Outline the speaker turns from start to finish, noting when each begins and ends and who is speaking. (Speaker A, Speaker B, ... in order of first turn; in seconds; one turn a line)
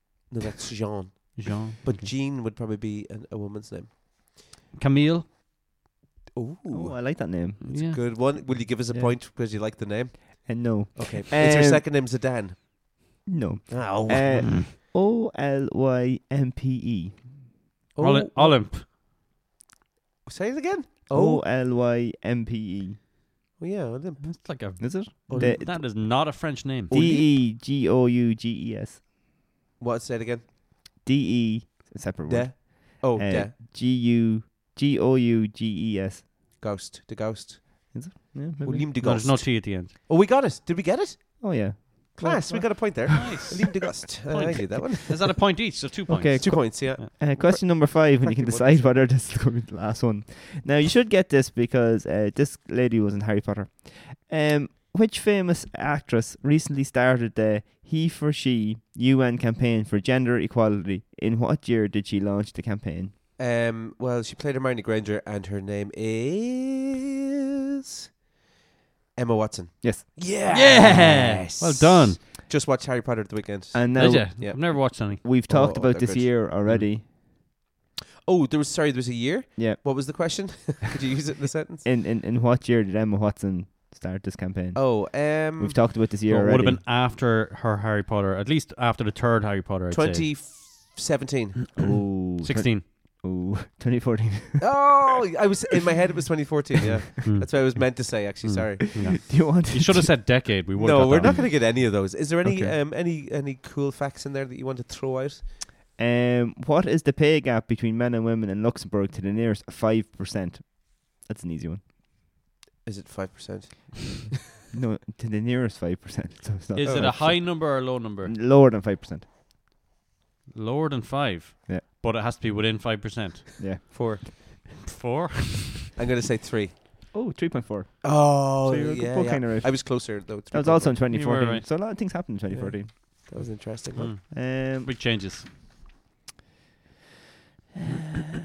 Speaker A: 0.3-4.0
Speaker B: 1.4-2.1
Speaker B: 4.7-5.3
Speaker A: 6.3-12.8
Speaker C: 6.7-9.2
Speaker B: 7.6-8.0
Speaker C: 10.5-11.9
Speaker C: 13.3-17.4
Speaker A: 13.7-14.6
Speaker A: 17.9-18.6
Speaker B: 18.0-18.9
Speaker A: 20.3-21.4
Speaker C: 21.1-23.0
Speaker A: 23.6-25.8
Speaker B: 24.2-27.0
Speaker C: 24.8-26.3
Speaker A: 26.9-27.3
Speaker C: 26.9-29.0
Speaker A: 29.8-30.4
Speaker C: 31.0-36.3
Speaker A: 32.3-33.5
Speaker A: 36.6-45.2
Speaker C: 37.9-38.9
Speaker B: 39.0-39.9
Speaker C: 41.4-43.5
Speaker B: 42.7-43.7
Speaker B: 44.3-47.1
Speaker C: 46.1-63.1
Speaker A: 46.4-49.0
Speaker A: 63.4-67.0
Speaker A: 69.2-76.5
Speaker B: 70.5-72.2
Speaker C: 73.7-77.1
Speaker B: 74.0-75.2
Speaker B: 76.7-76.9
Speaker A: 78.2-81.8
Speaker C: 79.6-80.3
Speaker C: 81.8-86.8
Speaker A: 84.8-85.8
Speaker B: 86.3-90.3
Speaker A: 89.9-91.8
Speaker C: 91.8-94.9
Speaker B: 92.4-92.9
Speaker A: 94.6-99.1
Speaker B: 97.2-101.9
Speaker C: 99.0-100.1
Speaker A: 100.8-105.5
Speaker C: 101.2-101.6
Speaker B: 102.5-102.8
Speaker C: 106.0-111.8
Speaker A: 112.8-114.3
Speaker C: 114.7-119.3
Speaker B: 116.8-118.3
Speaker A: 116.8-117.2
Speaker B: 120.5-125.9
Speaker C: 123.6-124.3
Speaker A: 126.0-126.8
Speaker C: 127.1-133.4
Speaker A: 128.0-131.0
Speaker B: 131.1-131.7
Speaker A: 132.5-134.2
Speaker B: 133.9-135.5
Speaker C: 134.3-134.9